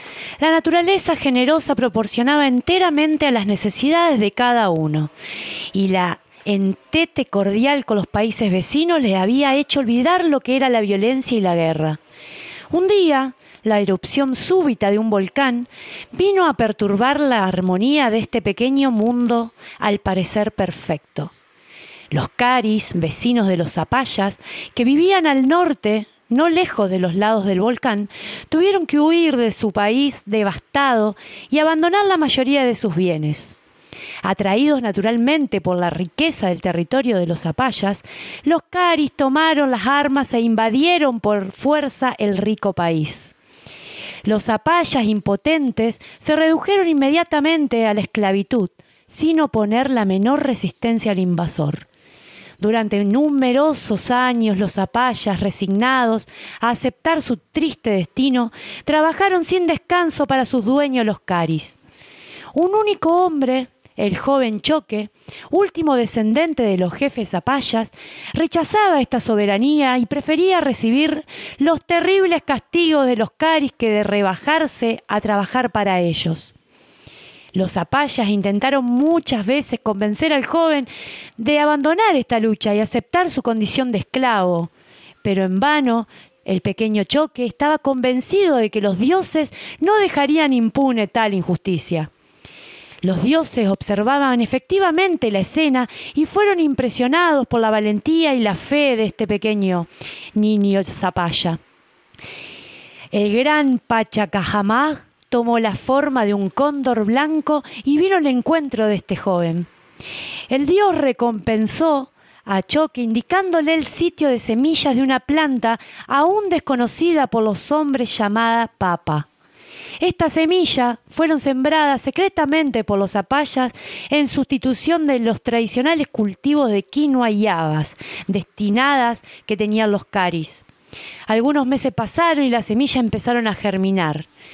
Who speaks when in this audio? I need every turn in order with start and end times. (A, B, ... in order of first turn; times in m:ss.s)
0:00.4-0:05.1 A
0:05.7-0:12.0 A
0:12.7-0:21.3 A
0:22.1-0:33.5 A
0:34.2-0:43.3 A
0:44.2-0:51.8 A
0:52.6-1:01.8 A
1:02.5-1:16.5 A
1:17.5-1:24.7 A
1:25.2-1:32.1 A
1:33.0-1:41.6 A
1:43.1-1:49.7 A
1:50.5-1:59.3 A
2:00.0-2:10.6 A
2:11.3-2:14.2 A